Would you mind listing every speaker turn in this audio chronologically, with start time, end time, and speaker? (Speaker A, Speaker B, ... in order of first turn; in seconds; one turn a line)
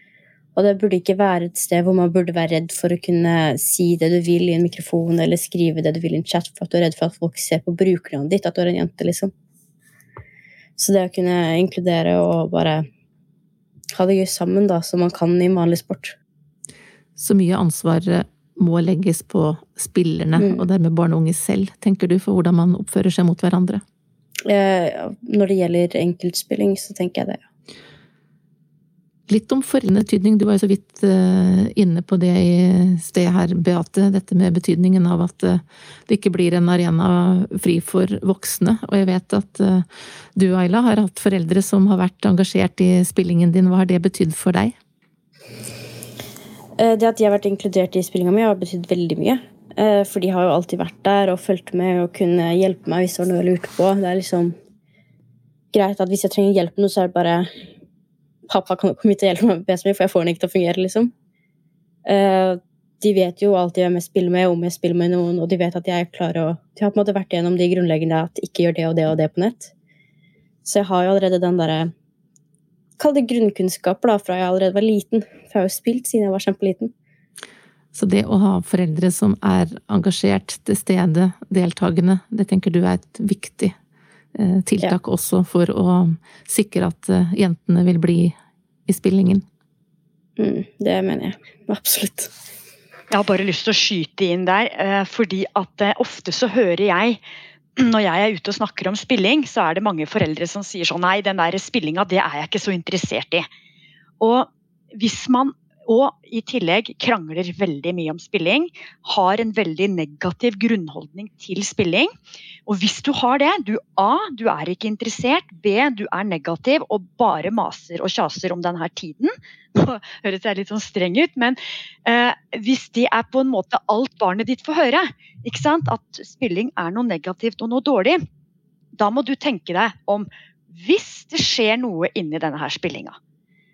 Speaker A: 0.5-9.3
Speaker A: 10.8-12.8
Speaker A: 13.9-16.1
Speaker B: 17.1-23.8
Speaker A: 20.4-20.6
Speaker A: 24.4-27.4
Speaker B: 29.3-44.7
Speaker A: 46.8-54.5
Speaker A: 55.7-57.5
Speaker A: 58.5-61.1
Speaker A: 62.0-69.7
Speaker A: 70.6-71.9
Speaker A: 73.0-76.9
Speaker B: 77.9-83.7
Speaker B: 84.3-88.3
Speaker B: 88.9-89.4
Speaker A: 90.4-92.3
Speaker C: 93.1-97.2
Speaker C: 97.8-103.5
Speaker C: 104.2-112.1
Speaker C: 112.7-128.2
Speaker C: 129.0-133.2